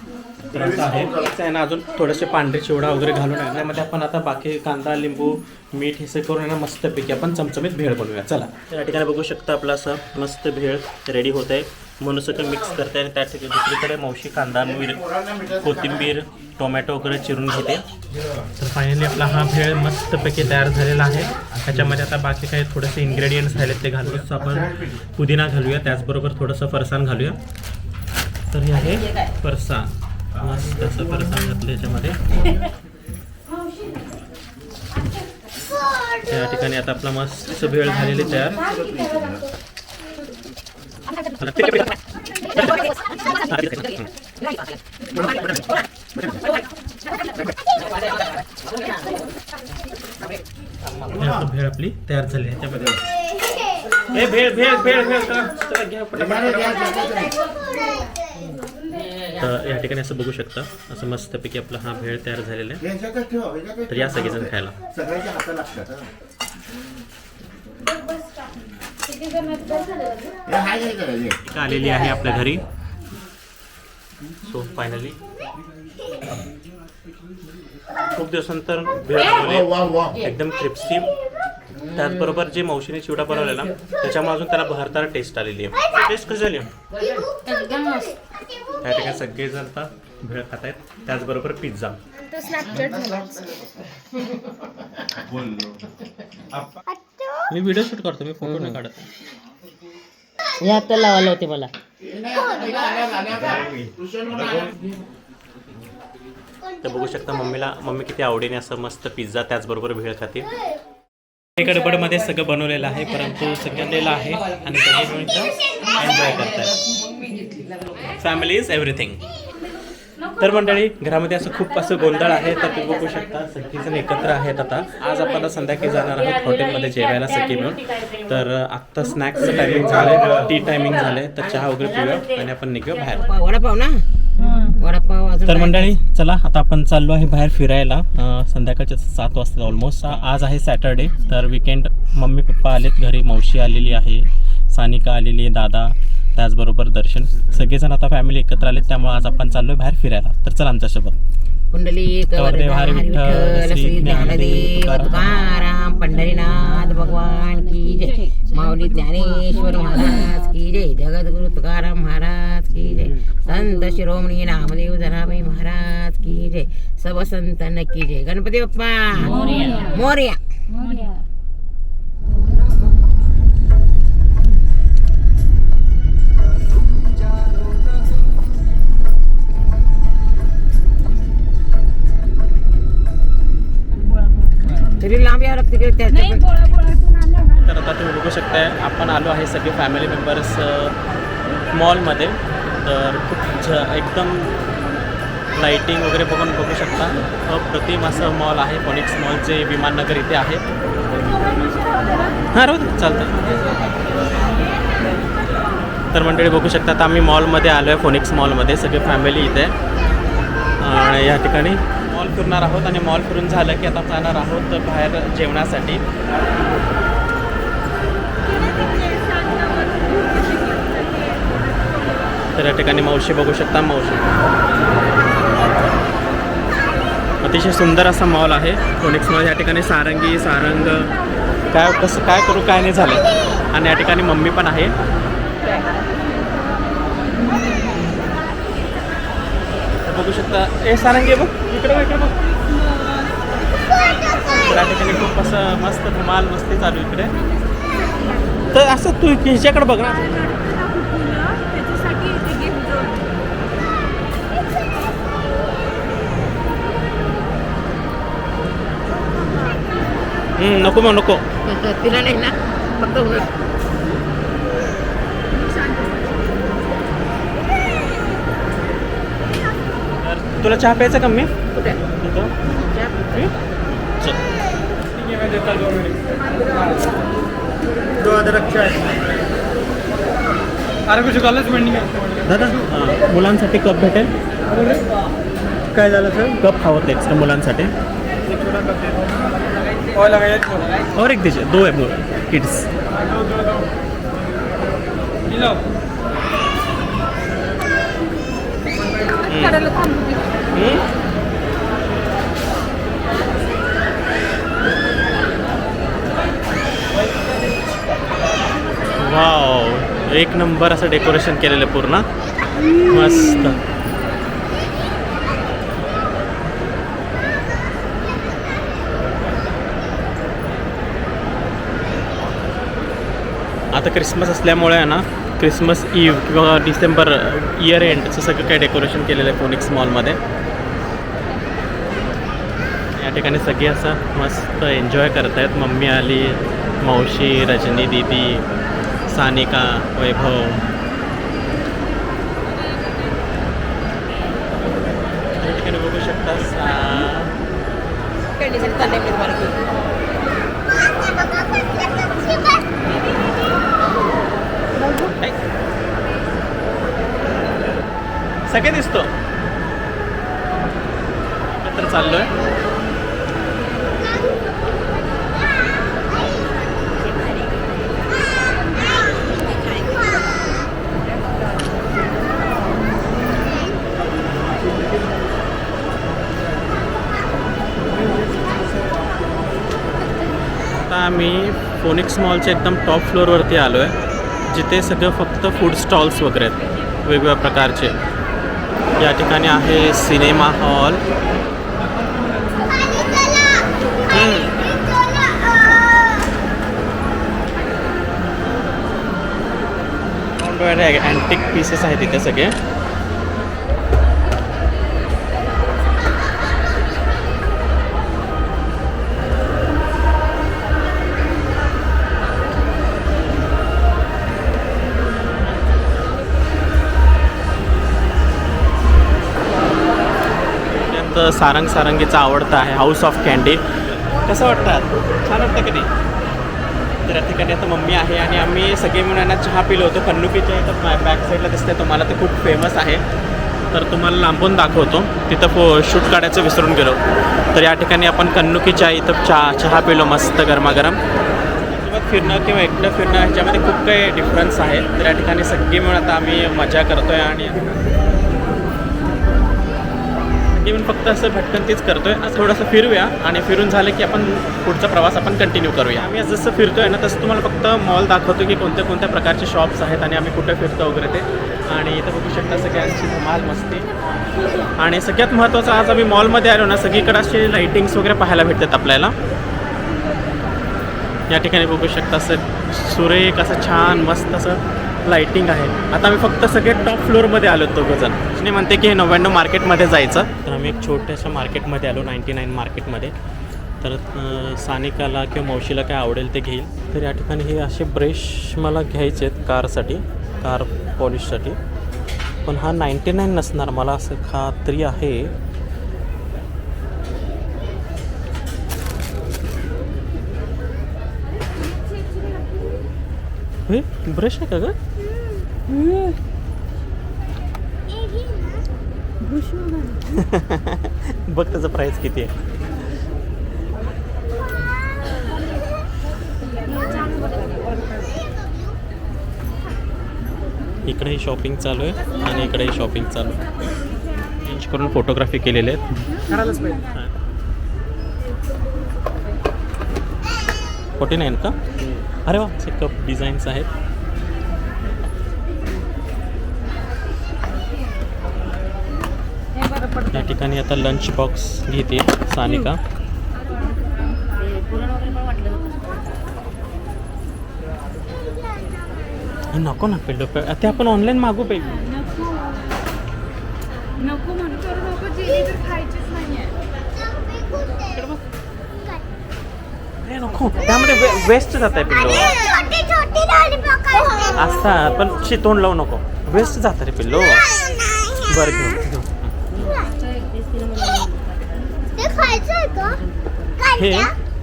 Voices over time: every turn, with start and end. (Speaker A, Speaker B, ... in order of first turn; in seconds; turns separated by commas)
Speaker A: 0.5-17.8, Speaker A: 18.6-27.4, Speaker A: 28.5-32.2, Speaker A: 36.2-38.6, Speaker A: 41.4-41.9, Speaker B: 42.6-44.0, Speaker A: 43.4-43.9, Speaker B: 45.1-45.6, Speaker A: 51.1-53.0, Speaker A: 54.1-57.1, Speaker A: 59.3-62.9, Speaker A: 63.9-64.8, Speaker A: 71.4-72.6, Speaker A: 74.5-75.2, Speaker A: 78.2-81.1, Speaker A: 81.9-86.7, Speaker C: 87.5-88.1, Speaker A: 88.8-92.0, Speaker C: 92.3-93.4, Speaker A: 97.5-99.1, Speaker B: 100.6-101.7, Speaker A: 106.8-110.5, Speaker A: 111.6-116.8, Speaker A: 118.1-119.2, Speaker A: 120.4-133.3, Speaker B: 133.2-136.0, Speaker A: 135.5-151.2, Speaker B: 151.7-170.4, Speaker A: 152.3-155.4, Speaker B: 184.8-186.5, Speaker C: 186.3-187.6, Speaker A: 187.6-191.0, Speaker A: 191.7-194.6, Speaker A: 195.6-200.6, Speaker C: 201.2-202.4, Speaker A: 202.5-203.6, Speaker A: 206.1-209.8, Speaker A: 210.8-216.0, Speaker C: 218.5-222.2, Speaker A: 222.6-224.4, Speaker A: 227.4-231.2, Speaker A: 231.7-234.9, Speaker A: 240.1-242.6, Speaker C: 242.6-244.5, Speaker A: 244.5-247.3, Speaker C: 247.7-248.6, Speaker A: 248.7-250.5, Speaker C: 250.5-253.3, Speaker A: 260.6-261.4, Speaker B: 261.6-263.6, Speaker C: 265.5-266.6, Speaker A: 270.0-271.5, Speaker B: 271.7-272.0, Speaker A: 272.2-272.5, Speaker B: 272.8-273.3, Speaker A: 273.2-274.4, Speaker A: 275.4-276.1, Speaker B: 278.3-278.6, Speaker A: 278.6-278.9, Speaker A: 282.4-284.3, Speaker A: 285.9-287.9, Speaker A: 291.1-292.9, Speaker A: 299.4-299.9, Speaker B: 299.6-300.6, Speaker A: 300.7-301.1, Speaker A: 309.2-312.3, Speaker A: 312.9-313.8, Speaker A: 323.9-330.4, Speaker A: 333.1-338.7, Speaker A: 339.3-340.9, Speaker A: 345.6-347.5, Speaker B: 348.6-349.8, Speaker A: 358.7-359.3, Speaker A: 361.8-362.5, Speaker A: 381.1-384.1, Speaker A: 384.7-388.2, Speaker A: 389.2-391.2, Speaker A: 394.3-394.8, Speaker A: 400.6-402.8, Speaker A: 421.0-426.1, Speaker A: 427.3-433.2, Speaker A: 433.9-437.2, Speaker A: 437.7-441.2, Speaker A: 441.9-447.8, Speaker A: 450.7-464.1, Speaker A: 465.0-469.4, Speaker A: 471.5-483.4, Speaker A: 484.0-491.8, Speaker A: 492.6-495.6, Speaker A: 503.9-505.0, Speaker C: 505.9-506.4, Speaker C: 509.4-510.2, Speaker A: 510.3-512.5, Speaker C: 517.0-517.6, Speaker A: 521.1-523.6, Speaker A: 524.6-527.3, Speaker C: 526.5-526.9, Speaker A: 531.2-531.8, Speaker A: 532.4-533.9, Speaker A: 540.2-543.0, Speaker B: 544.8-545.8, Speaker A: 549.7-552.1, Speaker C: 552.4-552.8, Speaker C: 554.2-556.8, Speaker A: 558.1-558.4, Speaker A: 560.2-562.6, Speaker A: 564.5-567.7, Speaker A: 568.5-569.5, Speaker B: 569.8-573.8, Speaker A: 573.9-574.3